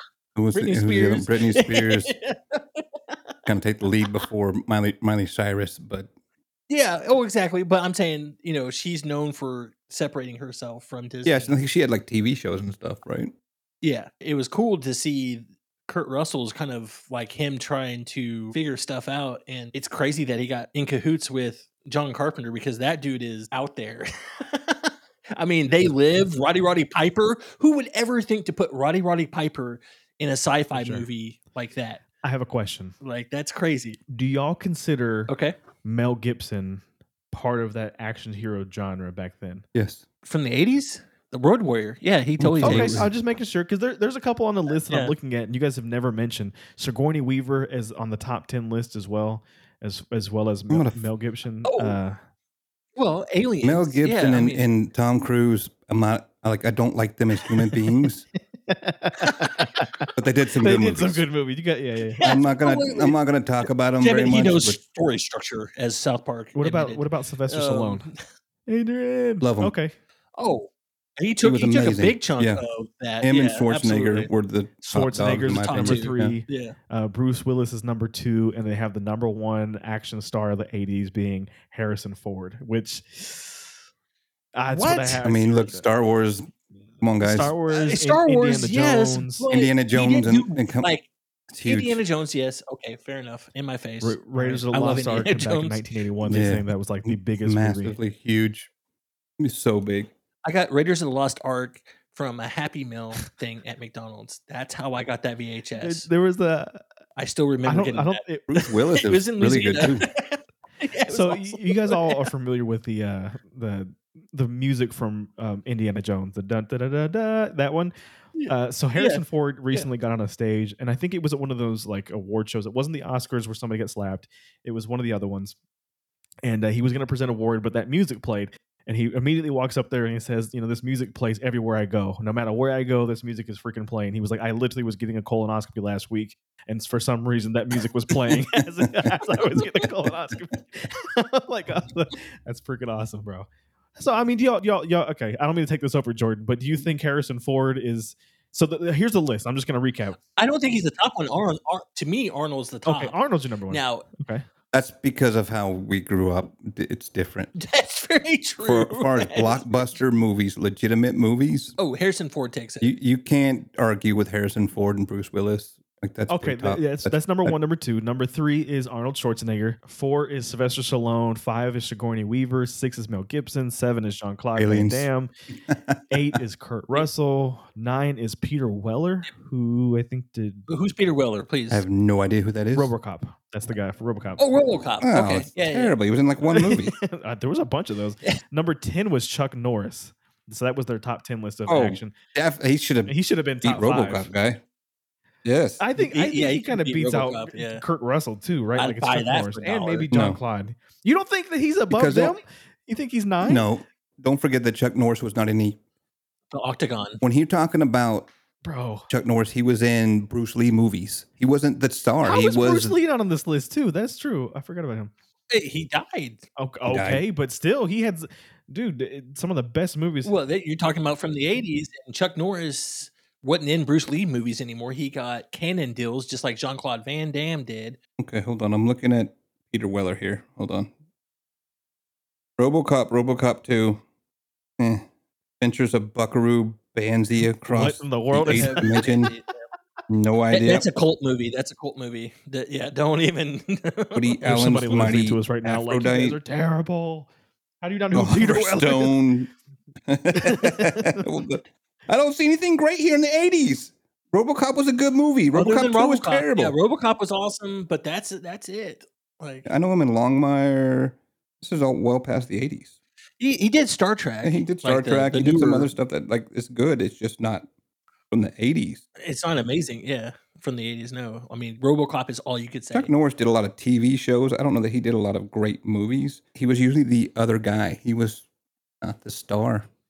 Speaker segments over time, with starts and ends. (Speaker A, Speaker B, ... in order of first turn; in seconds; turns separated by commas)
Speaker A: 0.3-2.1, Speaker B: 0.5-3.1, Speaker A: 3.5-6.1, Speaker B: 6.7-11.5, Speaker A: 11.2-13.3, Speaker B: 13.8-32.0, Speaker C: 30.7-31.1, Speaker C: 32.2-32.9, Speaker B: 33.0-34.0, Speaker C: 34.1-35.3, Speaker B: 35.3-35.6, Speaker C: 35.8-39.6, Speaker A: 39.7-40.0, Speaker B: 40.2-43.1, Speaker A: 42.4-43.1, Speaker C: 42.6-52.2, Speaker B: 44.7-45.1, Speaker A: 50.7-51.0, Speaker B: 51.6-52.0, Speaker B: 53.0-54.6, Speaker A: 53.6-58.2, Speaker C: 58.6-60.1, Speaker B: 59.3-59.5, Speaker A: 60.1-61.2, Speaker C: 60.6-62.4, Speaker B: 62.2-68.2, Speaker A: 62.2-64.8, Speaker C: 66.5-68.1, Speaker C: 68.7-69.9, Speaker A: 69.4-69.7, Speaker B: 70.3-74.3, Speaker A: 71.4-72.6, Speaker A: 73.2-76.4, Speaker C: 74.8-83.6, Speaker B: 75.4-76.8, Speaker C: 84.5-85.9, Speaker B: 84.7-85.2, Speaker A: 85.2-86.5, Speaker A: 87.0-87.5, Speaker C: 87.2-89.5, Speaker B: 87.7-91.1, Speaker A: 89.5-90.9, Speaker A: 91.5-92.0, Speaker B: 91.6-95.8, Speaker C: 94.0-98.0, Speaker A: 96.2-98.7, Speaker A: 99.4-100.1, Speaker B: 100.4-106.1, Speaker C: 105.8-106.8, Speaker B: 107.2-108.2, Speaker C: 107.7-108.6, Speaker A: 108.5-110.0, Speaker B: 108.9-112.2, Speaker C: 111.1-117.9, Speaker B: 118.3-119.9, Speaker C: 118.5-125.5, Speaker C: 126.4-150.2, Speaker A: 138.3-139.2, Speaker B: 150.4-153.2, Speaker C: 152.8-154.4, Speaker B: 153.7-154.1, Speaker A: 154.7-157.5, Speaker B: 157.5-159.8, Speaker A: 158.6-161.7, Speaker B: 161.8-162.9, Speaker A: 162.8-167.5, Speaker C: 166.3-175.3, Speaker A: 174.6-175.1, Speaker A: 175.7-176.3, Speaker C: 176.1-180.6, Speaker B: 180.7-181.8, Speaker A: 181.7-182.9, Speaker C: 182.7-184.4, Speaker B: 184.4-185.9, Speaker A: 185.0-187.0, Speaker C: 186.5-192.1, Speaker A: 191.7-194.6, Speaker C: 193.1-194.3, Speaker A: 195.4-195.8, Speaker C: 195.8-203.6, Speaker B: 196.0-197.8, Speaker B: 198.8-200.1, Speaker A: 200.1-200.4, Speaker A: 201.9-202.3, Speaker A: 203.4-205.8, Speaker B: 206.5-207.2, Speaker A: 207.2-208.3, Speaker C: 208.6-209.1, Speaker A: 209.1-212.9, Speaker C: 212.2-215.1, Speaker B: 215.5-216.4, Speaker C: 216.6-220.3, Speaker A: 216.9-217.2, Speaker B: 220.2-228.0, Speaker A: 228.2-230.9, Speaker A: 232.6-234.0, Speaker A: 234.8-235.1, Speaker A: 235.6-239.3, Speaker C: 237.7-239.0, Speaker B: 238.4-239.5, Speaker A: 240.1-240.8, Speaker B: 240.5-244.4, Speaker A: 244.1-246.4, Speaker C: 244.4-247.3, Speaker C: 247.8-249.1, Speaker A: 248.1-249.5, Speaker A: 250.1-256.7, Speaker C: 250.3-251.2, Speaker B: 255.5-259.7, Speaker A: 259.6-262.9, Speaker B: 263.4-265.9, Speaker A: 264.4-267.6, Speaker A: 268.3-269.0, Speaker B: 269.2-273.1, Speaker A: 272.9-278.4, Speaker A: 279.0-279.9